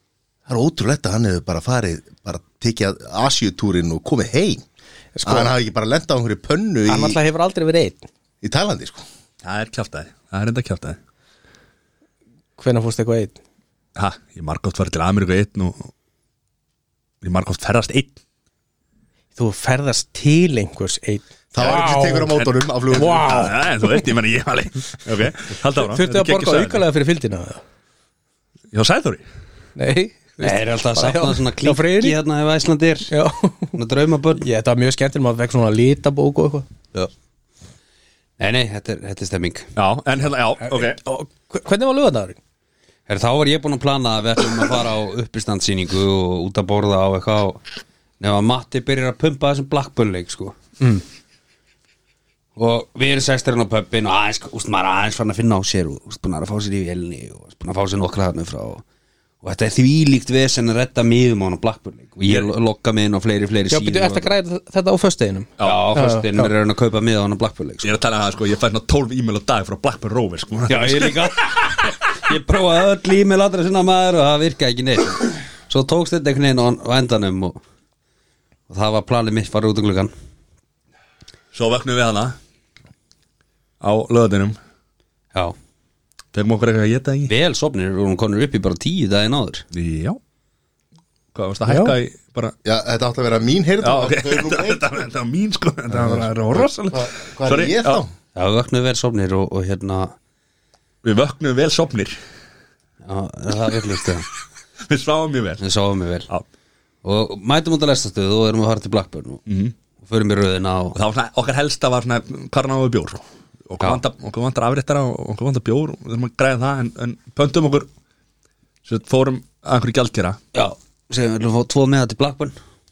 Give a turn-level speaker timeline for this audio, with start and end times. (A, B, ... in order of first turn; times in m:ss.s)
0:00.5-0:04.6 A
0:05.2-0:05.5 B
0:05.2-0:07.2 A
0:06.9-0:08.0 B
0:08.4-0:09.0 A
0:09.4-0:11.0 C
0:12.6-0:13.4 B
0:14.0-0:15.9 C
0:17.2-0:18.2 C
0:19.4-0:22.4 B
0:21.5-0:23.4 A
0:22.4-0:26.9 C
0:22.9-0:24.0 B
0:25.8-0:27.6 B
0:28.7-0:29.2 C
0:29.8-0:32.2 B
0:30.4-0:33.1 D
0:33.1-0:33.8 B
0:33.7-0:34.4 D
0:34.4-0:36.7 B
0:38.4-0:39.7 D
0:39.8-0:41.0 C
0:40.6-0:42.4 B
0:43.1-0:47.6 D
0:48.2-0:50.6 D
0:52.6-0:58.8 D
0:59.4-1:04.3 D
1:03.7-1:06.5 B
1:05.6-1:05.9 C
1:05.6-1:07.9 D
1:07.8-1:11.9 C
1:10.7-1:11.5 D
1:12.2-1:17.6 D
1:18.7-1:20.1 D
1:21.5-1:22.4 C
1:23.8-1:24.6 C
1:26.3-1:27.3 C
1:27.3-1:29.7 D
1:29.7-1:30.2 C
1:31.4-1:32.5 C
1:31.7-1:31.9 B
1:32.6-1:34.8 A
1:33.8-1:38.0 C
1:35.9-1:38.1 A
1:38.4-1:40.2 D
1:41.0-1:42.2 C
1:43.0-1:44.3 D
1:44.9-1:45.6 C
1:45.6-1:46.3 D
1:47.0-1:49.4 D
1:49.5-1:49.8 C
1:50.0-1:51.0 D
1:51.0-1:57.9 C
1:58.8-2:00.4 C
2:00.5-2:02.6 D